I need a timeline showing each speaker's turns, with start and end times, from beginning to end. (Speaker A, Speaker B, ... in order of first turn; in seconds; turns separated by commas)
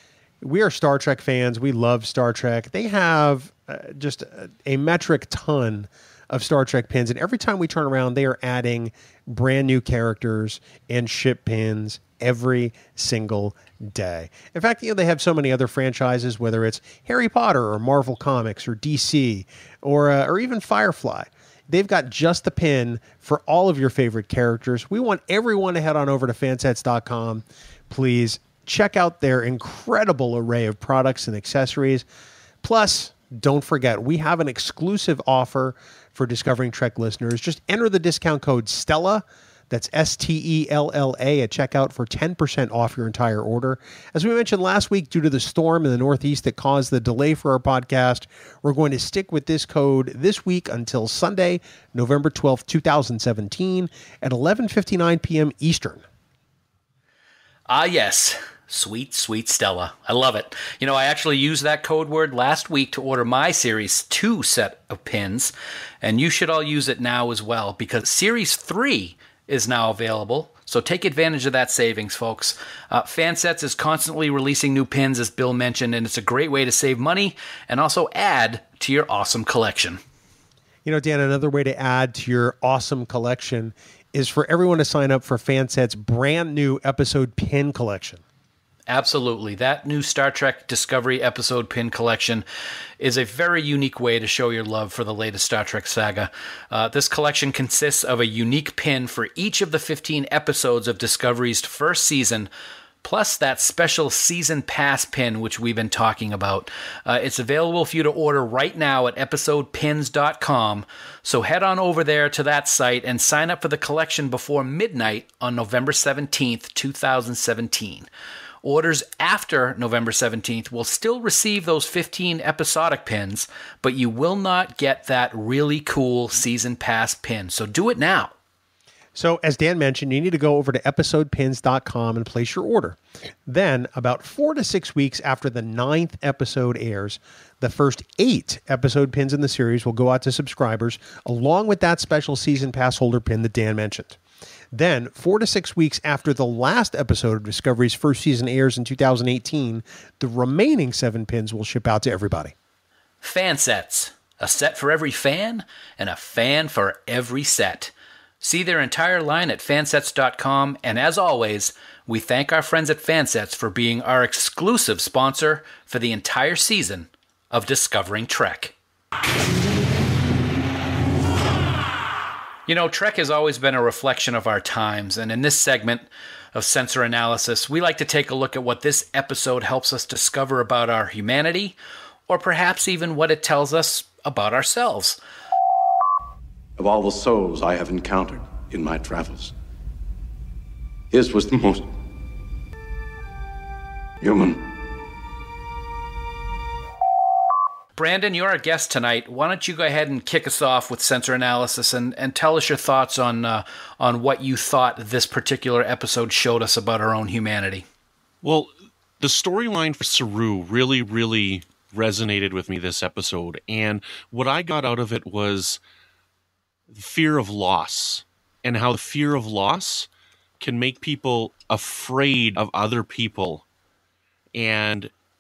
Speaker A: 0.4-32.0, Speaker A: 32.6-56.0, Speaker B: 57.7-80.0, Speaker A: 80.8-88.2, Speaker B: 88.9-92.5, Speaker B: 93.0-102.5, Speaker B: 103.0-118.1, Speaker B: 118.6-128.3, Speaker A: 129.2-144.2, Speaker A: 144.7-152.5, Speaker B: 153.2-168.7, Speaker B: 172.7-181.8, Speaker B: 182.3-185.2, Speaker C: 186.8-189.5, Speaker C: 191.1-191.9, Speaker C: 194.2-194.7, Speaker B: 198.0-207.9, Speaker D: 208.4-215.8, Speaker D: 216.9-220.1, Speaker D: 220.6-223.7, Speaker D: 224.6-225.1